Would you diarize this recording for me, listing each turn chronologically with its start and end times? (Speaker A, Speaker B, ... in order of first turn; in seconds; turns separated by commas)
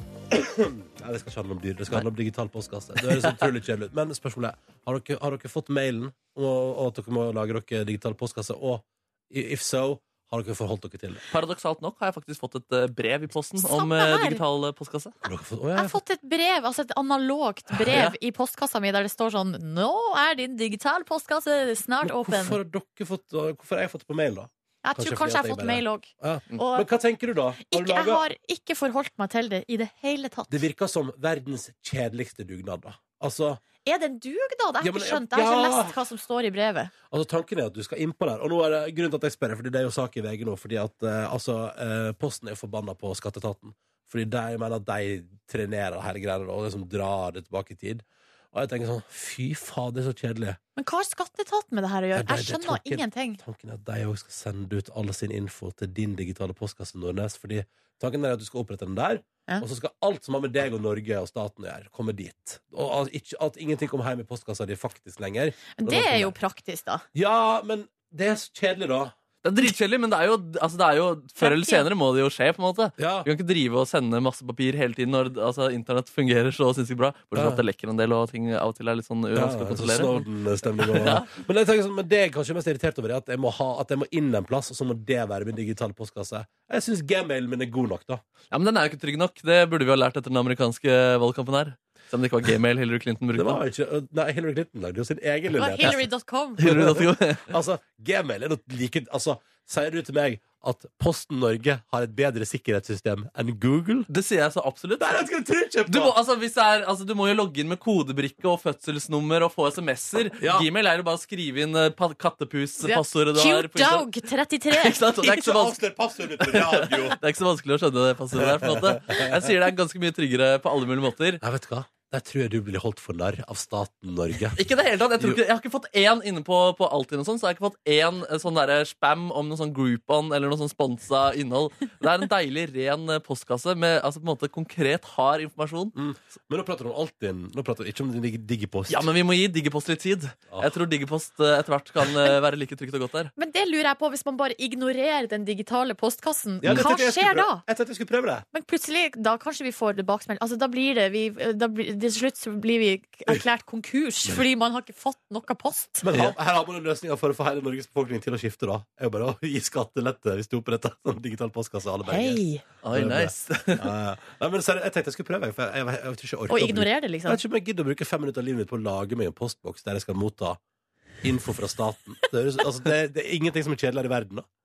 Speaker A: 0.3-11.2, Speaker B: 3.0-3.4, Speaker B: 11.3-15.1, Speaker C: 13.6-14.4, Speaker A: 15.2-16.0, Speaker C: 15.8-22.6, Speaker B: 17.8-18.1, Speaker A: 22.0-28.2, Speaker C: 24.8-26.9, Speaker C: 27.6-30.6, Speaker A: 30.5-33.6, Speaker C: 33.8-36.9, Speaker A: 34.8-36.0, Speaker A: 37.1-50.6, Speaker C: 50.8-53.4, Speaker A: 52.1-66.3, Speaker C: 65.7-67.0, Speaker A: 67.1-69.1, Speaker B: 69.4-81.3, Speaker C: 71.4-71.8, Speaker A: 73.0-73.3, Speaker A: 77.3-77.6, Speaker A: 79.3-88.2, Speaker B: 88.5-93.6, Speaker A: 93.3-96.0, Speaker C: 95.6-96.8, Speaker B: 96.6-97.5, Speaker A: 96.6-104.1, Speaker B: 104.1-105.2, Speaker A: 105.0-106.2, Speaker B: 105.9-114.2, Speaker A: 110.4-110.7, Speaker C: 112.8-115.0, Speaker B: 114.7-115.8, Speaker A: 115.2-117.2, Speaker B: 116.4-121.4, Speaker A: 118.3-119.4, Speaker A: 121.4-124.6, Speaker B: 124.5-135.9, Speaker A: 135.9-139.1, Speaker B: 138.9-143.3, Speaker C: 143.3-147.6, Speaker A: 146.6-148.4, Speaker C: 148.5-156.1, Speaker A: 156.0-170.6, Speaker C: 162.1-162.6, Speaker B: 162.8-163.9, Speaker C: 166.5-167.4, Speaker A: 171.2-174.4